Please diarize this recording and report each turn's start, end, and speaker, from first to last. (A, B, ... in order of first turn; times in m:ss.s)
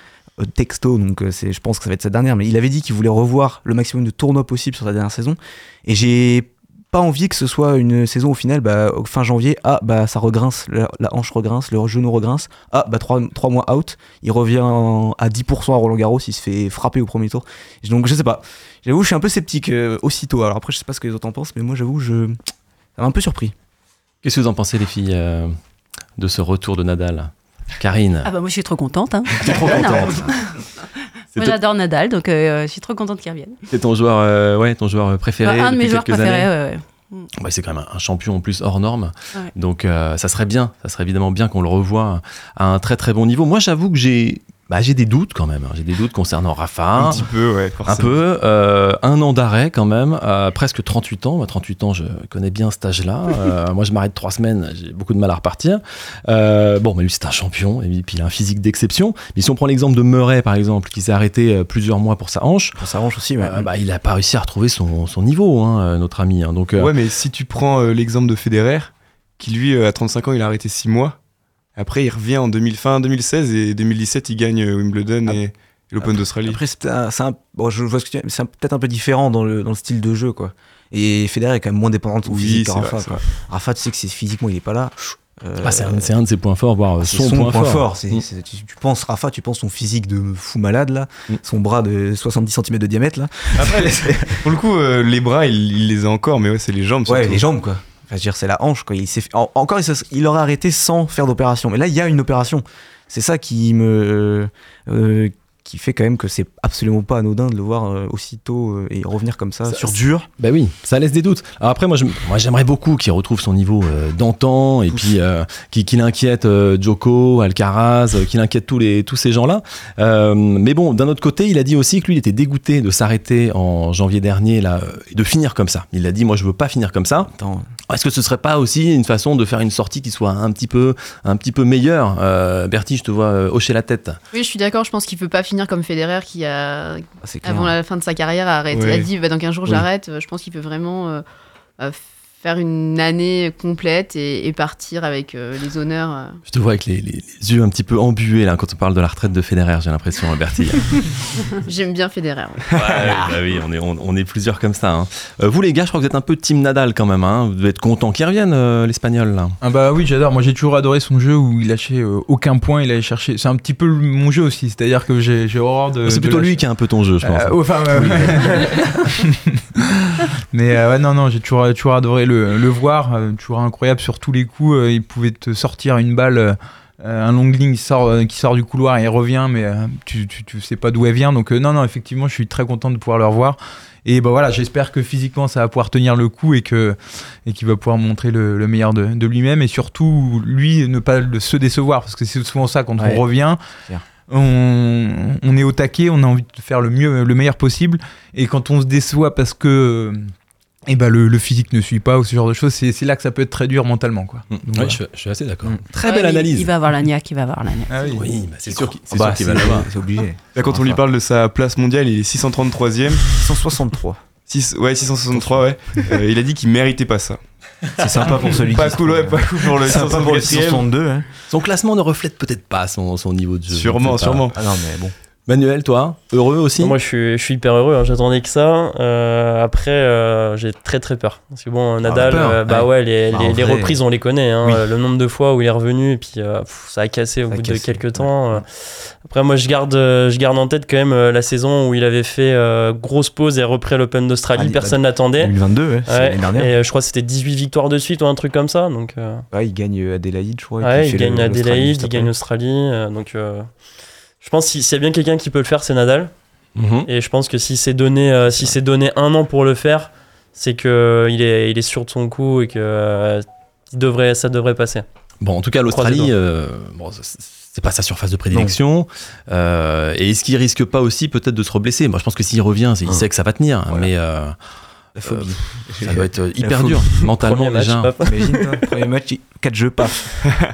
0:00.4-0:22.4 A
0:23.0-0:23.5 A
0:24.2-0:25.6 B
0:26.2-0:28.3 B
0:28.2-0:30.3 C
0:29.4-0:30.3 B
0:31.3-0:33.6 C
0:33.7-0:36.5 B
0:35.4-0:37.3 C
0:37.4-0:47.2 B
0:47.0-0:48.2 D
0:47.9-1:02.8 B
1:02.8-1:03.7 A
1:03.4-1:06.9 B
1:06.8-1:11.2 D
1:11.8-1:16.6 D
1:16.0-1:26.1 A
1:22.3-1:23.2 D
1:25.6-1:28.2 B
1:27.0-1:34.4 A
1:34.4-1:37.4 D
1:37.1-1:50.3 A
1:49.7-2:07.3 B
2:07.2-2:07.7 A
2:07.9-2:14.2 B
2:14.3-2:21.2 E
2:17.2-2:17.7 A
2:18.7-2:19.1 D
2:21.8-2:26.4 E
2:26.5-2:31.1 B
2:31.6-2:33.4 E
2:32.8-2:39.6 B
2:39.6-2:46.6 F
2:46.0-2:48.8 B
2:47.2-2:49.3 F
2:50.5-3:13.6 F
3:13.0-3:13.2 A
3:14.3-3:20.3 F
3:20.9-3:25.0 F
3:24.5-3:26.7 B
3:26.0-3:28.1 C
3:27.9-3:28.3 F
3:28.1-3:29.9 B
3:28.7-3:31.0 A
3:30.6-3:33.5 D
3:33.2-3:34.2 A
3:34.5-3:37.4 D
3:35.3-3:36.1 A
3:38.0-3:41.3 A
3:38.5-3:40.8 D
3:39.8-3:40.8 F
3:41.5-3:44.5 B
3:43.7-3:44.5 D
3:44.5-3:45.1 A
3:45.5-3:47.0 B
3:46.8-4:05.6 G
3:52.1-3:52.9 B
3:52.1-3:54.0 A
3:57.5-3:58.6 A
4:04.5-4:06.7 A
4:06.1-4:09.5 G
4:09.5-4:12.3 A
4:10.8-4:13.8 G
4:14.4-4:16.3 G
4:16.8-4:17.1 B
4:17.1-4:25.1 G
4:25.4-4:34.6 B
4:25.9-4:26.3 G
4:35.2-4:37.3 A
4:35.2-4:38.1 B
4:37.4-4:38.9 G
4:38.2-4:40.5 A